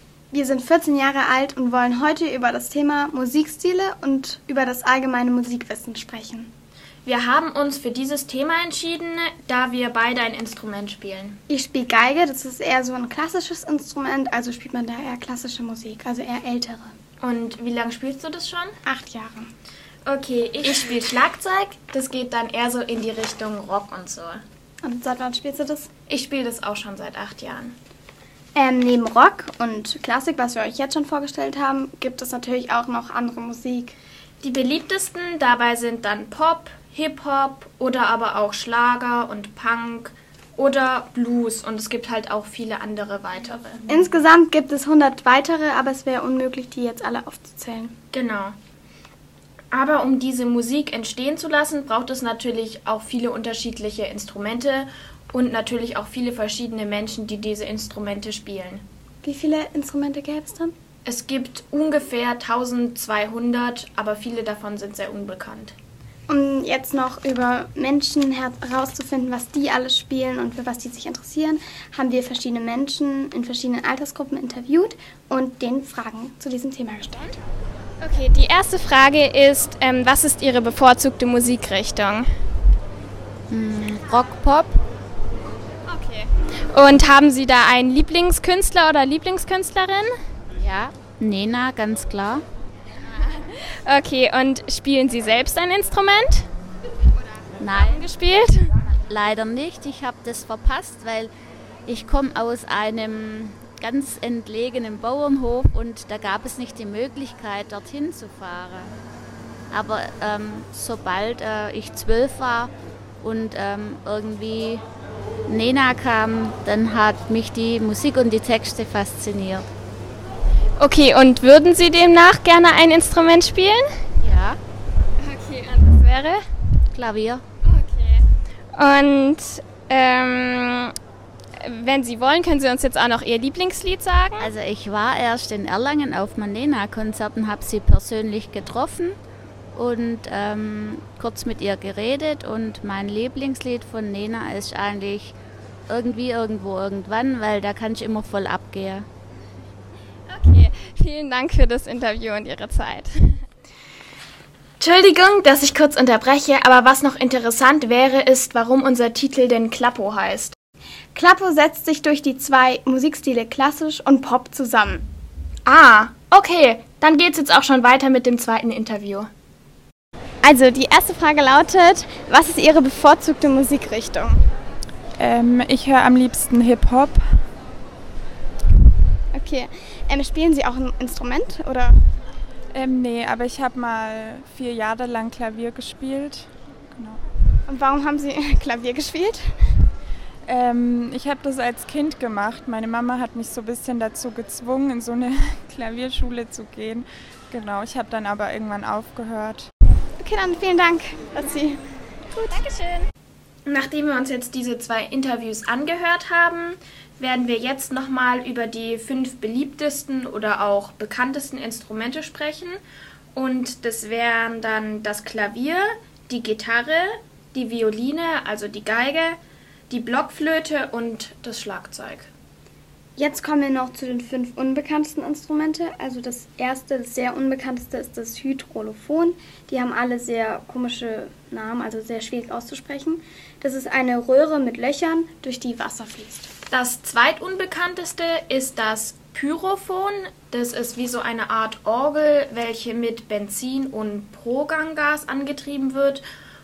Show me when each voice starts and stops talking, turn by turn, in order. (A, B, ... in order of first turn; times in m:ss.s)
0:00.3-0:06.5 A
0:07.0-0:11.4 B
0:11.5-0:16.9 A
0:17.2-0:18.7 B
0:18.9-0:19.5 A
0:20.0-0:24.4 B
0:24.8-0:25.9 A
0:26.1-0:27.8 B
0:28.6-0:34.0 A
0:34.4-0:43.8 B
0:43.9-0:47.9 A
0:48.1-0:48.6 B
0:49.7-0:58.8 B
0:59.2-1:00.7 A
1:01.0-1:05.8 B
1:06.3-1:17.4 A
1:18.0-1:22.3 C
1:23.5-1:24.8 D
1:25.9-1:30.1 C
1:30.6-1:32.4 D
1:33.2-1:36.5 C
1:37.6-1:38.1 D
1:37.8-1:38.7 C
1:39.1-1:41.3 D
1:41.9-1:48.9 D
1:49.7-1:54.8 D
1:55.5-1:59.6 D
2:00.8-2:03.8 C
2:04.2-2:04.6 D
2:05.2-2:06.4 C
2:06.9-2:07.4 D
2:07.6-2:08.2 C
2:08.8-2:10.9 C
2:11.6-2:14.5 C
2:14.4-2:19.2 D
2:19.8-2:25.3 D
2:25.9-2:29.1 D
2:30.3-2:33.3 C
2:34.8-2:40.6 B
2:41.1-2:45.1 A
2:45.6-2:49.3 B
2:50.4-2:54.4 A
2:55.2-2:57.2 E
2:59.3-3:02.0 A
3:02.7-3:07.2 E
3:07.7-3:09.5 A
3:10.5-3:19.7 E
3:20.2-3:21.8 A
3:22.4-3:23.1 C
3:23.6-3:32.8 B
3:33.4-3:39.4 B
3:39.9-3:42.3 B
3:43.2-3:56.5 A
3:56.7-4:06.2 B